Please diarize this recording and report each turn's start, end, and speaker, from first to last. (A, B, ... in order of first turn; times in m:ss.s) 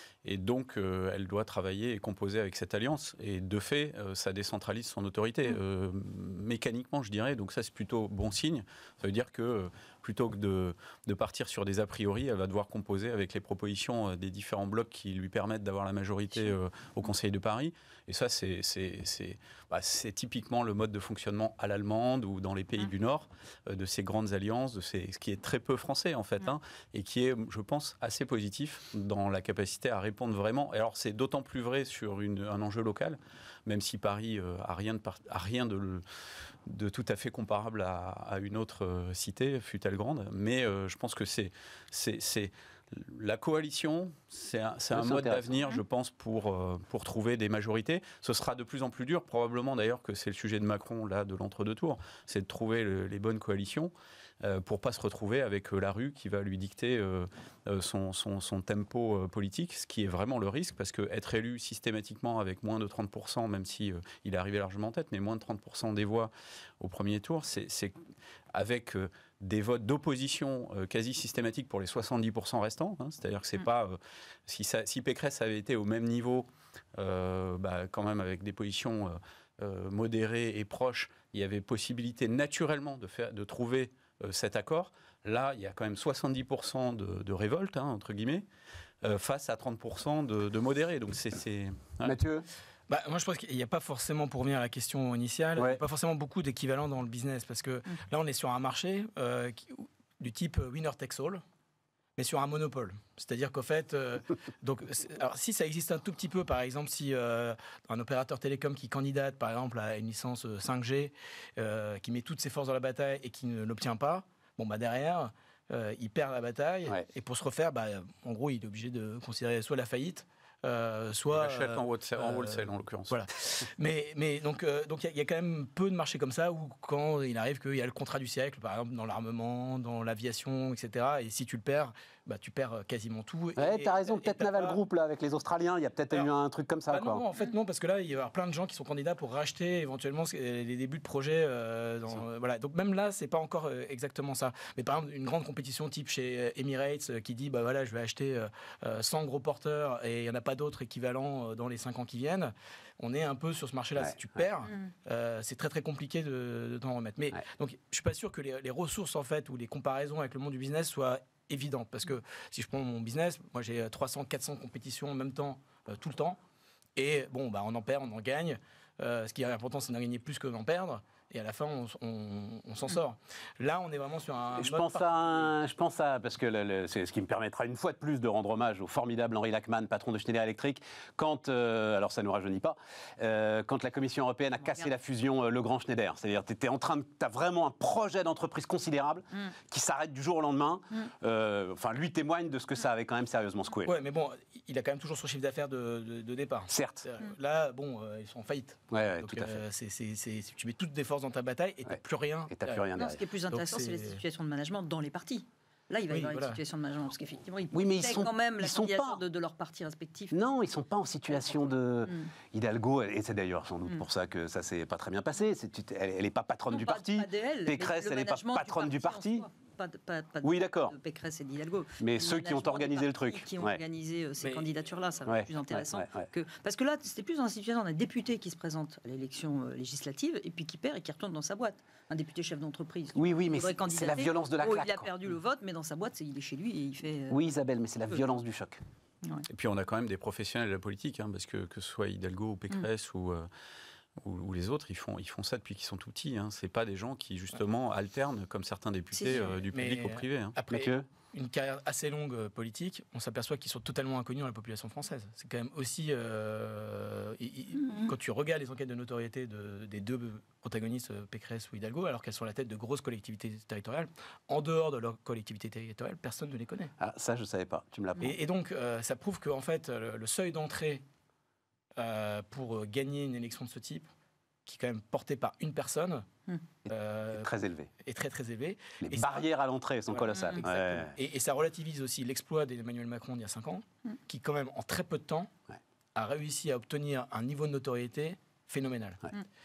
0:00.2-0:36.0 A
0:36.6-1:08.0 A
0:44.9-0:45.6 B
1:08.5-1:28.4 A
1:29.0-1:32.2 A
1:32.0-1:32.4 B
1:32.9-1:41.4 C
1:42.2-2:14.8 C
2:01.3-2:03.2 A
2:13.6-2:17.2 B
2:16.9-2:46.4 C
2:47.0-2:55.5 C
2:54.6-3:13.9 B
3:13.8-3:22.9 C
3:16.7-3:17.0 B
3:18.9-3:19.6 B
3:22.5-3:23.2 B
3:23.0-3:30.4 D
3:23.5-3:24.2 C
3:26.1-3:26.6 C
3:27.7-3:29.2 B
3:30.3-3:39.5 B
3:32.1-3:32.3 D
3:36.7-3:57.4 D
3:40.4-3:40.9 B
3:42.0-3:43.8 B
3:44.4-3:44.7 C
3:45.2-3:46.3 B
3:53.1-3:55.1 B
3:57.3-3:58.8 B
3:59.5-4:03.5 A
4:04.2-4:10.6 A
4:09.1-4:09.5 D
4:09.3-4:26.9 C
4:10.7-4:11.0 B
4:27.0-4:28.4 B
4:28.2-4:31.0 C
4:32.0-4:34.1 C
4:34.6-4:36.3 C
4:36.8-4:37.9 B
4:36.8-4:39.5 C
4:39.0-4:41.2 B
4:40.1-4:45.5 C
4:40.3-4:40.6 D
4:46.1-4:49.3 C